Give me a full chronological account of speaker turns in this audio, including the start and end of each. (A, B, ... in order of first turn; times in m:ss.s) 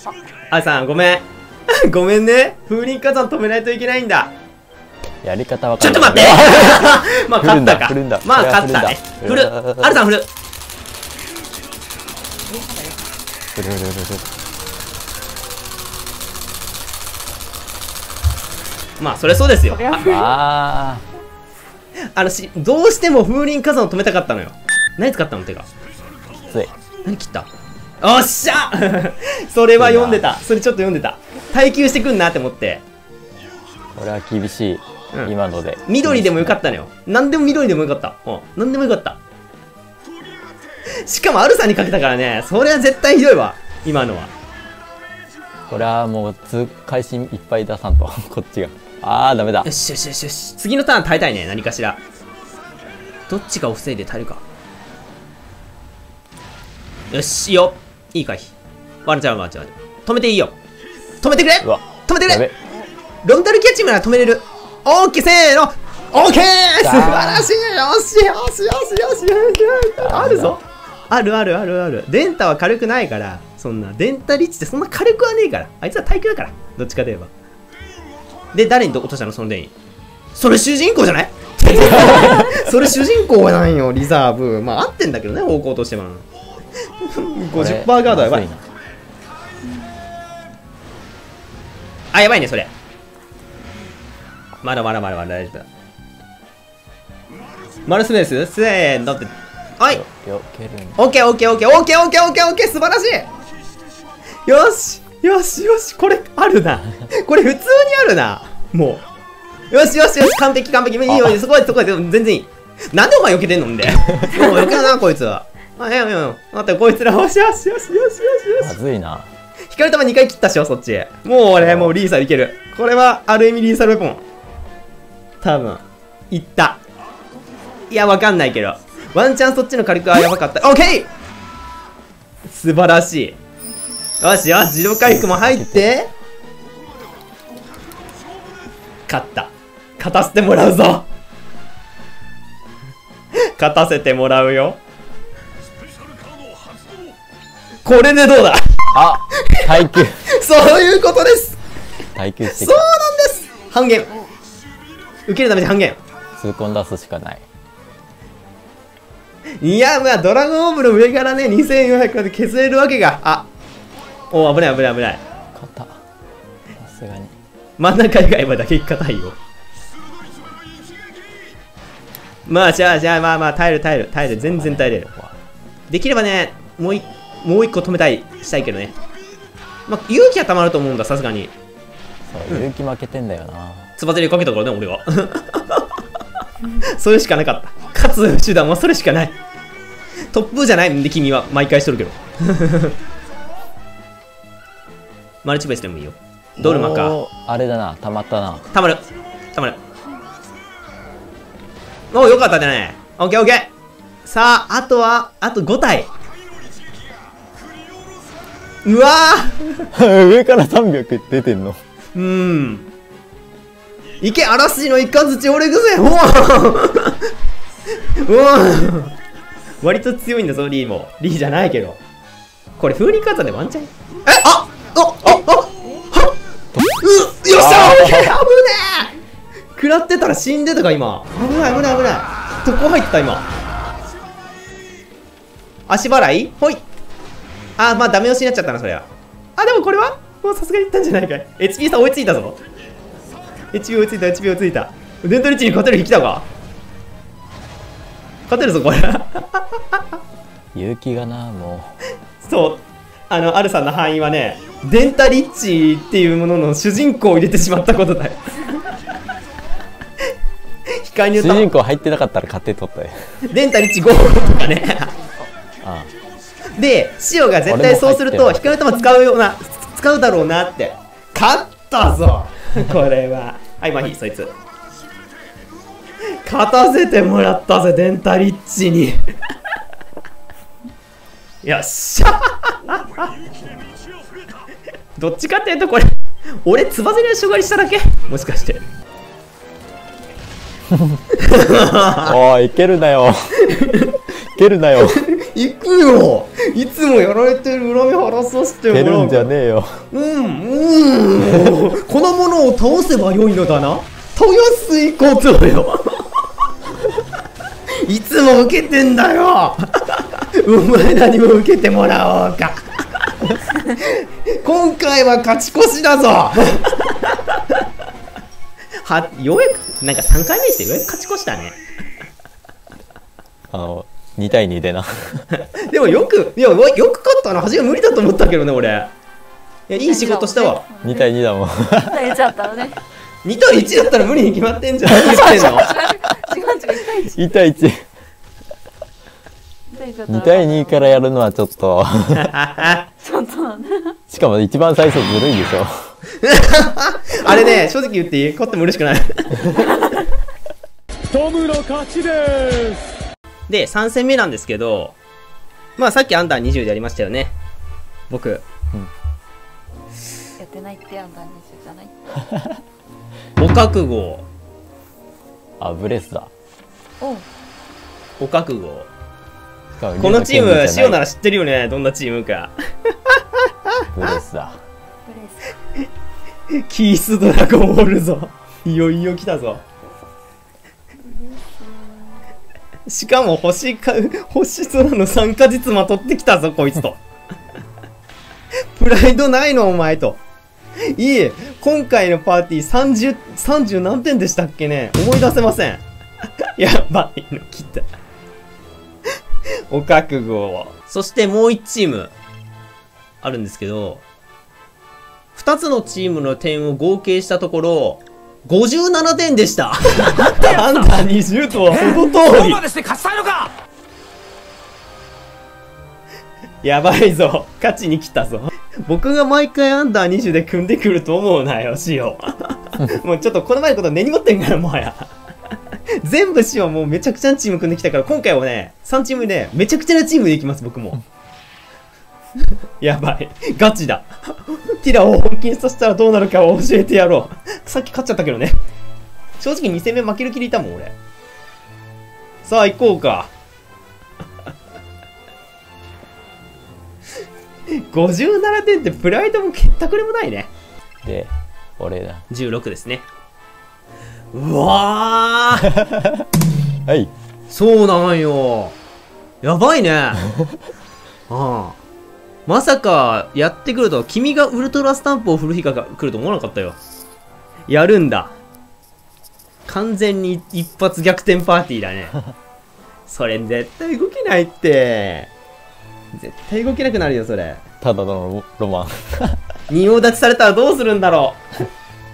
0:00.5-0:04.3 A
0:05.2-0:10.0 B
0:05.8-0:10.3 A
0:12.5-0:13.1 C
0:13.6-0:14.3 B
0:19.0-0:20.1 A
0:19.7-0:20.4 C
0:20.0-0:21.0 B
0:22.1-0:25.7 A
0:27.0-0:27.5 A
0:28.0-0:32.8 A
0:29.8-0:30.2 B
0:34.0-0:36.6 B
0:35.9-0:39.2 A
0:41.0-0:44.3 A
0:45.7-0:49.7 B
0:49.6-0:52.0 A
0:53.3-0:54.4 A
0:57.1-0:58.5 A
0:59.0-1:00.6 A
1:01.2-1:02.5 A
1:01.6-1:02.5 B
1:03.2-1:17.3 A
1:06.8-1:07.5 B
1:10.0-1:10.6 B
1:18.5-1:19.7 A
1:20.4-1:26.3 A
1:27.0-1:28.5 A
1:27.5-1:28.6 B
1:32.1-1:32.7 A
1:34.6-1:35.7 A
1:37.8-1:40.0 A
1:39.9-1:41.0 B
1:41.0-1:43.3 A
1:44.5-1:49.0 A
1:49.7-1:58.8 A
1:51.1-1:51.4 B
1:58.6-1:59.3 B
1:59.7-2:04.2 A
2:01.6-2:02.0 B
2:05.4-2:06.8 A
2:07.9-2:11.1 A
2:12.5-2:13.4 A
2:14.2-2:16.1 A
2:15.0-2:15.9 B
2:19.1-2:21.1 A
2:23.4-2:24.8 A
2:27.8-2:31.6 A
2:28.9-2:30.2 B
2:32.2-2:32.9 B
2:32.5-2:34.1 A
2:35.3-2:36.0 A
2:36.4-2:37.4 B
2:39.6-2:43.5 A
2:44.3-2:45.2 A
2:45.6-2:46.0 B
2:46.8-2:47.3 B
2:47.8-2:49.4 A
2:52.5-2:55.1 A
2:54.4-2:55.4 B
2:55.9-2:59.0 A
2:59.9-3:01.5 A
3:02.3-3:03.9 B
3:04.0-3:05.9 A
3:06.7-3:09.4 A
3:10.3-3:13.0 A
3:15.4-3:17.2 A
3:16.6-3:18.7 B
3:18.7-3:19.8 A
3:22.1-3:23.7 A
3:24.3-3:26.1 A
3:28.8-3:29.9 A
3:29.9-3:31.8 B
3:32.2-3:32.9 A
3:34.2-3:37.3 A
3:38.0-3:39.2 A
3:39.8-3:42.0 A
3:42.8-3:46.4 A
3:47.0-3:49.1 A
3:47.5-3:48.4 B
3:49.8-3:53.5 A
3:55.9-3:56.8 A
3:57.8-4:02.6 A
4:03.7-4:06.5 A
4:08.5-4:10.0 A
4:10.7-4:12.0 B
4:12.4-4:18.5 A
4:20.9-4:21.7 A
4:21.3-4:23.4 B
4:23.5-4:25.1 A
4:24.3-4:25.5 C
4:25.8-4:26.1 B
4:26.8-4:34.5 A
4:27.7-4:28.9 B
4:36.4-4:39.2 A
4:41.6-4:43.3 A
4:45.2-4:48.8 A
4:50.9-4:51.2 B
4:51.3-4:52.4 A
4:52.2-4:53.6 B
4:53.6-4:54.2 A
4:54.3-4:55.2 B
4:55.1-4:59.5 A
4:58.9-5:00.0 B
5:00.1-5:06.2 A
5:08.0-5:17.6 A
5:19.0-5:21.8 A
5:23.7-5:25.5 B
5:25.6-5:29.1 A
5:29.9-5:30.8 A
5:30.0-5:31.3 C
5:31.0-5:32.4 B
5:31.9-5:33.0 C
5:33.4-5:36.0 A
5:35.2-5:37.5 C
5:37.2-5:38.0 B
5:39.9-5:41.2 C
5:40.3-5:42.5 B
5:42.3-5:43.1 A
5:43.2-5:44.2 C
5:44.3-5:46.1 B
5:46.3-5:49.9 A
5:49.8-5:50.2 C
5:51.3-5:53.1 D
5:53.7-5:55.2 A
5:56.0-5:57.5 A
5:58.3-5:58.6 A
6:00.6-6:02.1 C
6:03.6-6:04.5 A
6:05.8-6:06.5 B
6:07.2-6:07.5 C
6:08.4-6:09.1 A
6:10.0-6:11.2 B
6:10.2-6:14.4 A
6:14.1-6:14.8 B
6:15.3-6:15.8 C
6:16.7-6:19.8 A
6:21.2-6:22.4 C
6:23.1-6:27.2 A
6:29.0-6:30.4 A
6:31.0-6:36.0 A
6:36.8-6:38.1 A
6:39.9-6:42.3 A
6:43.4-6:44.2 A
6:45.6-6:52.8 A
6:50.6-6:50.8 B
6:50.6-6:50.9 D
6:51.9-6:53.7 D
6:56.8-7:05.3 A
7:06.2-7:11.2 A
7:13.0-7:18.8 A
7:19.6-7:21.1 A
7:22.6-7:23.5 A
7:27.9-7:30.7 A
7:31.2-7:32.4 B
7:32.5-7:33.3 A
7:34.5-7:35.9 A
7:35.9-7:36.5 B
7:37.1-7:37.3 B
7:37.7-7:39.0 A
7:39.6-7:40.4 A
7:41.5-7:42.0 A
7:42.7-7:47.0 A
7:47.9-7:48.5 A
7:49.9-7:52.4 A
7:53.3-7:55.5 A
7:56.3-7:57.8 A
7:58.0-7:59.6 B
7:59.9-8:01.6 A